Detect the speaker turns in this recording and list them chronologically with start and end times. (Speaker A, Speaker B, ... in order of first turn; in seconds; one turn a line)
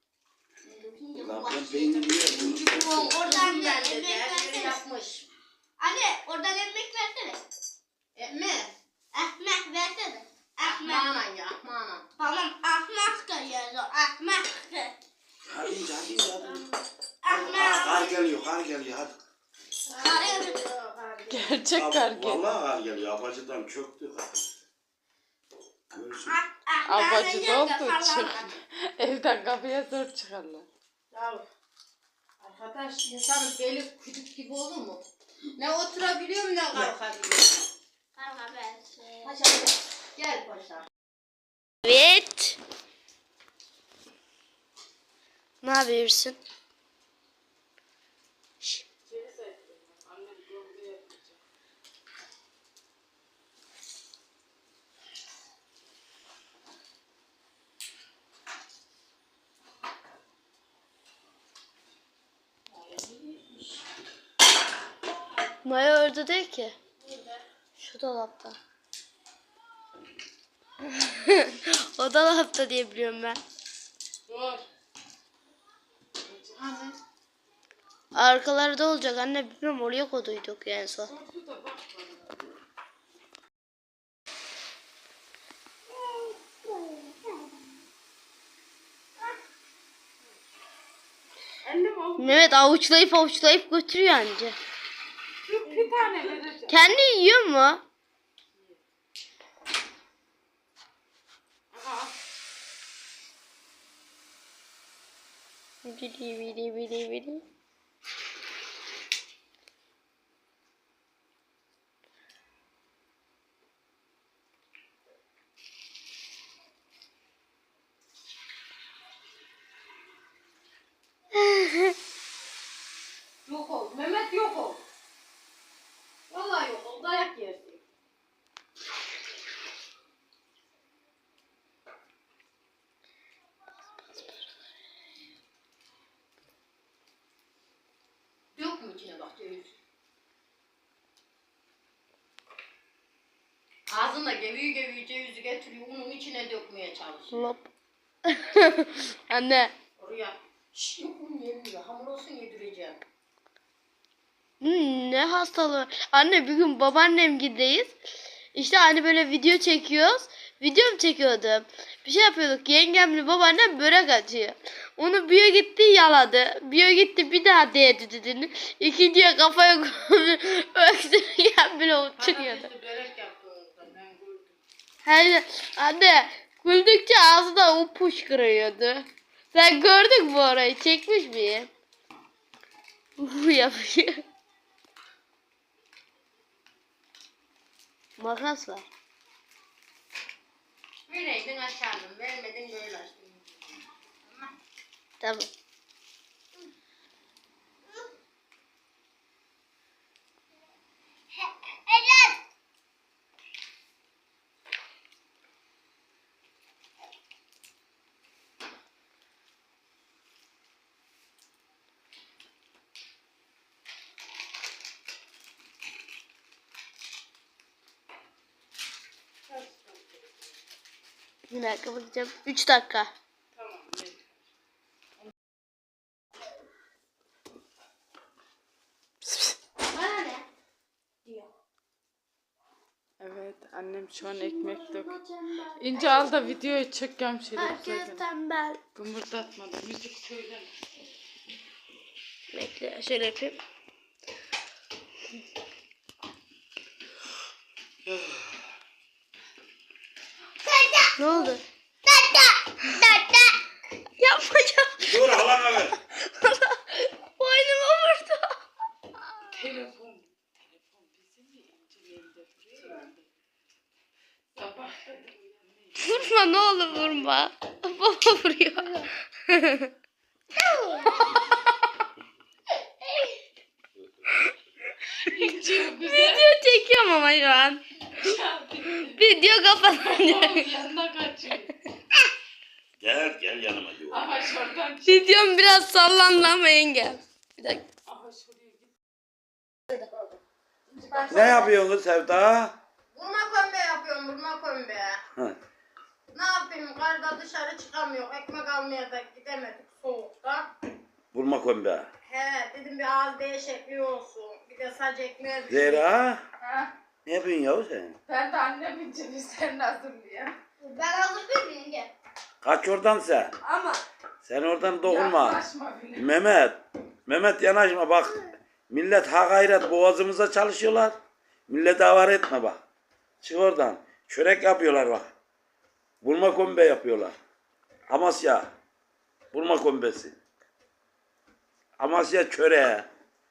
Speaker A: 0.7-5.3
Speaker B: 1.2-3.1
Speaker C: 3.1-4.8
Speaker C: 5.8-7.4
Speaker A: 8.2-8.8
Speaker C: 9.1-11.1
Speaker A: 10.6-12.1
Speaker C: 12.2-14.9
Speaker B: 15.5-16.7
Speaker C: 17.2-18.2
Speaker B: 17.3-19.1
Speaker A: 19.8-21.6
Speaker C: 19.9-20.6
Speaker D: 21.3-22.4
Speaker B: 21.8-24.3
Speaker B: 25.9-26.4
Speaker C: 26.2-28.4
Speaker D: 26.9-30.7
Speaker A: 31.1-31.4
Speaker A: 32.4-35.0
Speaker A: 35.6-37.7
Speaker C: 38.2-39.3
Speaker A: 39.2-40.9
Speaker E: 41.8-42.6
Speaker E: 45.6-46.4
Speaker D: 49.1-51.4
Speaker A: 62.7-63.8
Speaker E: 65.6-66.8
Speaker A: 67.0-67.4
Speaker E: 67.8-68.6
Speaker E: 71.1-73.4
Speaker D: 74.3-74.7
Speaker A: 76.5-77.0
Speaker E: 78.1-81.1
Speaker D: 81.0-82.3
Speaker D: 91.6-92.6
Speaker E: 92.2-94.6
Speaker D: 95.4-96.8
Speaker E: 96.7-97.8
Speaker D: 101.7-102.1
Speaker E: 105.8-107.4
Speaker E: 121.5-121.8
Speaker A: 123.5-124.8
Speaker A: 126.3-127.8
Speaker A: 138.6-139.8
Speaker A: 143.9-147.4
Speaker E: 147.3-147.7
Speaker E: 148.3-149.7
Speaker A: 150.0-153.0
Speaker E: 154.6-157.9
Speaker E: 158.5-172.7
Speaker A: 172.2-174.4
Speaker E: 175.1-181.7
Speaker E: 183.2-184.2
Speaker E: 188.2-188.9
Speaker A: 191.1-194.5
Speaker E: 195.2-195.5
Speaker D: 219.5-220.2
Speaker E: 221.5-223.1
Speaker D: 223.6-224.2
Speaker D: 229.2-229.6
Speaker E: 229.9-230.4
Speaker D: 233.2-235.1
Speaker E: 234.3-236.4
Speaker D: 235.8-238.2
Speaker E: 237.6-238.8
Speaker D: 238.9-240.7
Speaker E: 242.5-243.6
Speaker B: 248.1-248.5
Speaker C: 250.7-251.1
Speaker E: 251.2-251.6
Speaker C: 252.1-252.5
Speaker E: 252.8-253.6
Speaker E: 254.2-255.4
Speaker B: 255.0-256.0
Speaker E: 256.3-258.6
Speaker D: 259.5-263.3
Speaker D: 264.5-267.9
Speaker E: 266.0-269.9
Speaker E: 270.6-271.5
Speaker D: 275.2-276.4
Speaker E: 275.9-277.8
Speaker D: 278.1-279.2
Speaker E: 279.1-280.6
Speaker D: 279.8-281.8
Speaker B: 283.0-284.2
Speaker D: 284.1-285.6
Speaker E: 285.1-287.8
Speaker D: 288.1-288.9
Speaker D: 290.9-291.7
Speaker A: 291.2-291.6
Speaker B: 291.3-292.8
Speaker A: 293.1-295.2
Speaker A: 296.3-300.7
Speaker B: 301.3-302.1
Speaker A: 302.2-306.1
Speaker B: 305.7-306.4
Speaker D: 306.6-306.9
Speaker B: 307.2-308.2
Speaker D: 308.3-310.6
Speaker C: 310.8-312.1
Speaker B: 312.6-313.5
Speaker C: 313.8-314.0
Speaker B: 314.4-315.6
Speaker D: 315.0-316.3
Speaker B: 316.2-318.4
Speaker B: 318.9-321.1
Speaker B: 321.7-322.8
Speaker B: 323.4-325.3
Speaker B: 326.2-327.3
Speaker B: 328.1-328.7
Speaker B: 329.5-330.4
Speaker B: 332.0-333.1